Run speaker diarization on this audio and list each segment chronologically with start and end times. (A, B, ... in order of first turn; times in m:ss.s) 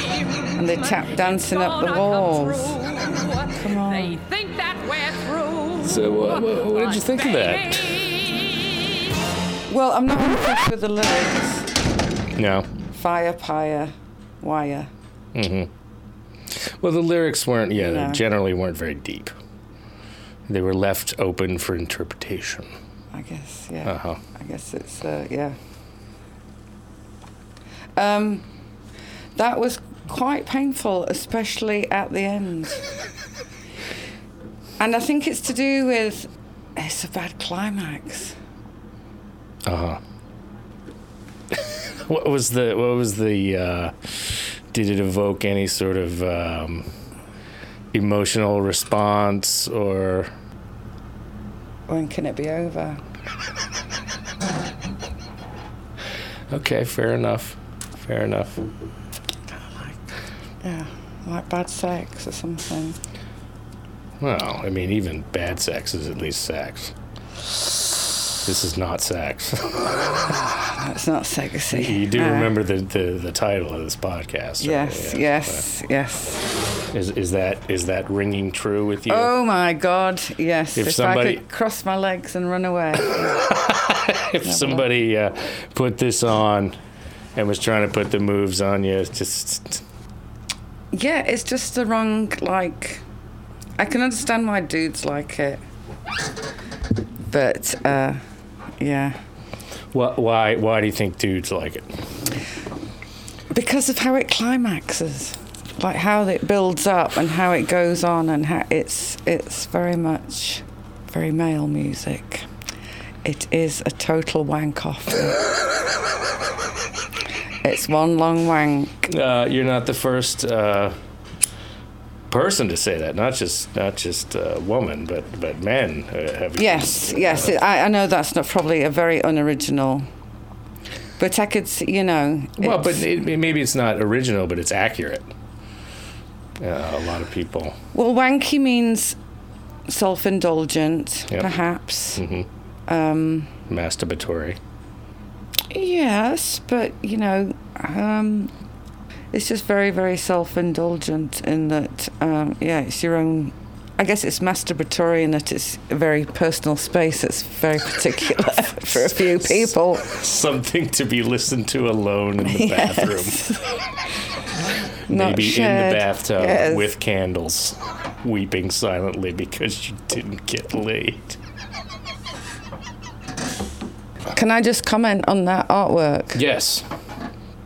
0:00.5-0:04.3 A
0:02.8-0:03.3 B
0:04.2-0:05.8 B
0:05.8-0:08.4 C
0:09.7-0:11.7 A
0:12.4-0:12.7 C
0:12.9-0:14.9 A
0:15.3-0:15.7 C
0:16.6-0:19.3 C
0:17.8-0:18.2 A
0:20.5-0:22.7 C
0:23.1-0:25.6 A
0:23.8-0:24.2 C
0:28.0-0:28.4 A
0:29.4-0:32.8 A
0:34.8-0:38.4 A
0:39.6-0:40.0 C
0:41.5-0:46.9 C
0:47.9-0:50.3 C
0:51.9-0:53.0 A
0:56.5-0:58.7 C
1:00.6-1:03.0 A
1:04.2-1:06.9 C
1:08.4-1:10.3 C
1:10.2-1:12.5 A
1:11.7-1:15.6 C
1:14.6-1:16.5 A
1:16.9-1:19.3 C
1:19.1-1:23.5 A
1:20.8-1:21.4 C
1:23.1-1:26.7 C
1:24.4-1:24.8 A
1:27.4-1:29.8 C
1:30.9-1:33.0 A
1:33.8-1:35.6 A
1:37.3-1:38.2 A
1:38.8-1:39.2 A
1:39.9-1:41.9 C
1:43.5-1:52.5 A
1:53.2-1:55.4 A
1:57.6-1:59.1 A
1:59.1-2:01.0 C
2:02.3-2:07.6 C
2:06.6-2:10.1 A
2:11.2-2:13.1 A
2:12.6-2:15.3 C
2:16.6-2:17.8 C
2:17.9-2:19.2 A
2:19.9-2:22.2 A
2:22.2-2:22.5 C
2:22.9-2:23.5 A
2:23.7-2:24.6 C
2:25.7-2:28.5 A
2:29.3-2:40.1 A
2:39.2-2:43.6 C
2:42.4-2:43.7 A
2:45.1-2:46.9 A
2:45.1-2:51.4 C
2:54.3-2:56.4 A
2:56.3-2:56.9 C